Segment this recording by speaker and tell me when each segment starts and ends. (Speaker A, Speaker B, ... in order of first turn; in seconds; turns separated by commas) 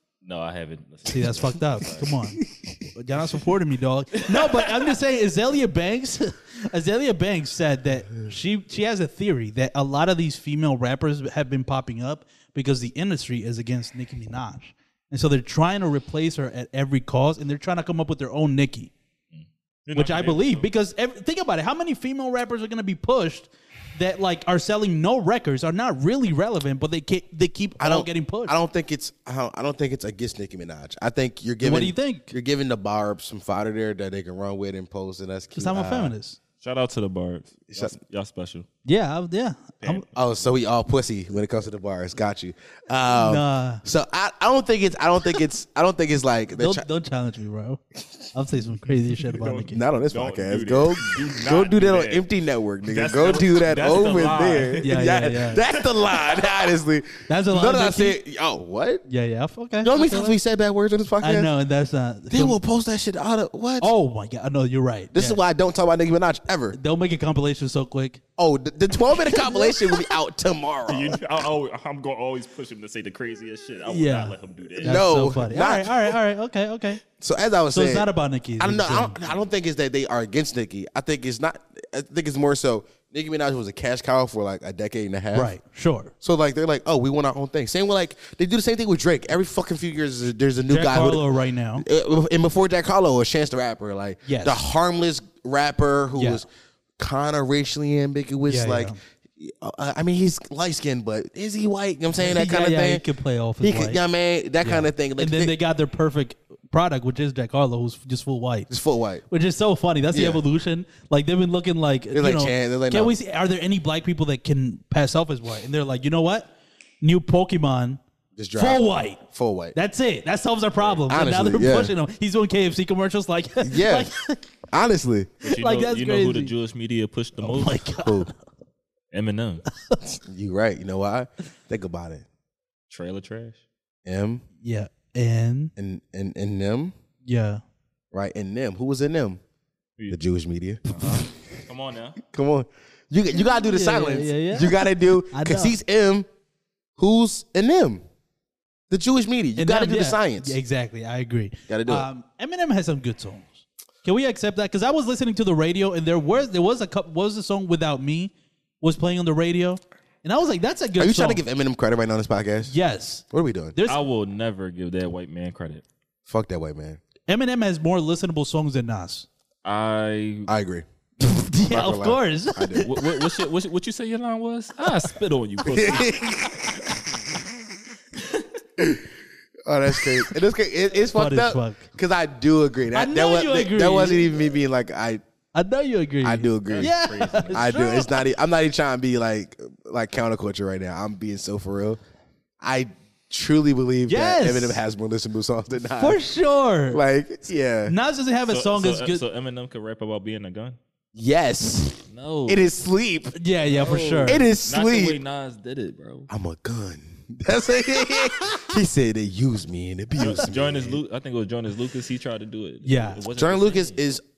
Speaker A: 0.2-2.1, Speaker B: 1.1-2.4, Speaker C: 2.4-2.8, Speaker B: 2.9-18.9, Speaker A: 19.3-20.7, Speaker B: 19.9-28.6, Speaker C: 27.8-36.1, Speaker B: 31.6-32.3, Speaker B: 35.5-36.4, Speaker A: 36.6-38.6, Speaker C: 37.7-37.9, Speaker B: 38.8-40.0, Speaker A: 39.8-40.1, Speaker C: 40.1-46.8, Speaker B: 43.1-43.8, Speaker B: 46.6-47.8, Speaker B: 48.3-49.8, Speaker A: 49.4-52.2, Speaker C: 49.7-59.0, Speaker A: 52.8-54.8, Speaker B: 54.8-55.6, Speaker B: 57.3-58.2, Speaker B: 59.1-60.3, Speaker C: 59.8-61.5, Speaker B: 61.2-62.6, Speaker C: 62.3-63.9, Speaker B: 63.8-65.4, Speaker C: 65.1-66.8, Speaker B: 66.7-68.2, Speaker C: 68.4-71.2, Speaker B: 69.2-70.0, Speaker A: 70.9-75.0, Speaker B: 73.9-77.0, Speaker C: 74.8-76.1, Speaker C: 77.2-85.5, Speaker B: 77.7-79.2, Speaker B: 85.3-86.1, Speaker C: 86.2-96.5, Speaker B: 90.7-91.8, Speaker B: 94.2-94.6, Speaker B: 96.1-96.4, Speaker C: 97.0-103.0, Speaker B: 98.5-99.0, Speaker B: 102.2-104.0, Speaker C: 103.6-105.5, Speaker B: 104.6-108.7, Speaker C: 108.7-109.2, Speaker B: 109.3-118.0, Speaker C: 110.1-110.4, Speaker C: 112.1-113.2, Speaker C: 118.3-119.8, Speaker B: 118.5-119.2, Speaker B: 119.7-124.4, Speaker C: 121.1-121.9, Speaker C: 123.6-124.1, Speaker C: 124.7-125.3, Speaker A: 125.4-127.8, Speaker B: 125.4-126.5, Speaker B: 127.4-128.3, Speaker C: 128.0-128.3, Speaker A: 129.1-129.6, Speaker C: 130.2-132.2, Speaker A: 132.9-133.6, Speaker C: 134.1-134.4, Speaker B: 134.6-135.7, Speaker C: 135.8-136.9, Speaker B: 137.2-137.6, Speaker C: 138.1-139.4, Speaker C: 140.1-141.2, Speaker A: 140.9-142.2, Speaker C: 142.2-146.3, Speaker B: 143.3-145.8, Speaker C: 147.0-148.0, Speaker C: 148.9-150.6, Speaker B: 149.6-161.4, Speaker C: 151.7-152.1, Speaker C: 161.0-162.7, Speaker B: 162.7-164.0, Speaker C: 163.3-163.7, Speaker A: 163.9-165.8, Speaker C: 166.3-167.0, Speaker B: 167.3-169.3, Speaker A: 169.6-170.5, Speaker C: 170.5-170.8, Speaker B: 171.2-172.8, Speaker C: 171.7-172.9, Speaker A: 172.8-176.6, Speaker C: 175.6-176.7, Speaker C: 179.7-185.2, Speaker B: 181.1-181.9, Speaker B: 182.9-184.3, Speaker B: 185.5-188.1, Speaker C: 186.2-186.9, Speaker A: 186.7-187.7, Speaker C: 187.5-192.0, Speaker C: 192.6-196.2, Speaker B: 194.1-194.8, Speaker B: 196.0-197.0, Speaker C: 196.9-197.9, Speaker B: 197.9-199.2, Speaker A: 198.5-200.8, Speaker C: 201.1-203.3, Speaker A: 202.1-202.7, Speaker B: 203.3-204.4, Speaker A: 203.7-206.3, Speaker C: 204.2-205.2, Speaker C: 206.3-211.0, Speaker A: 210.2-214.1, Speaker B: 212.8-213.2, Speaker C: 213.3-214.2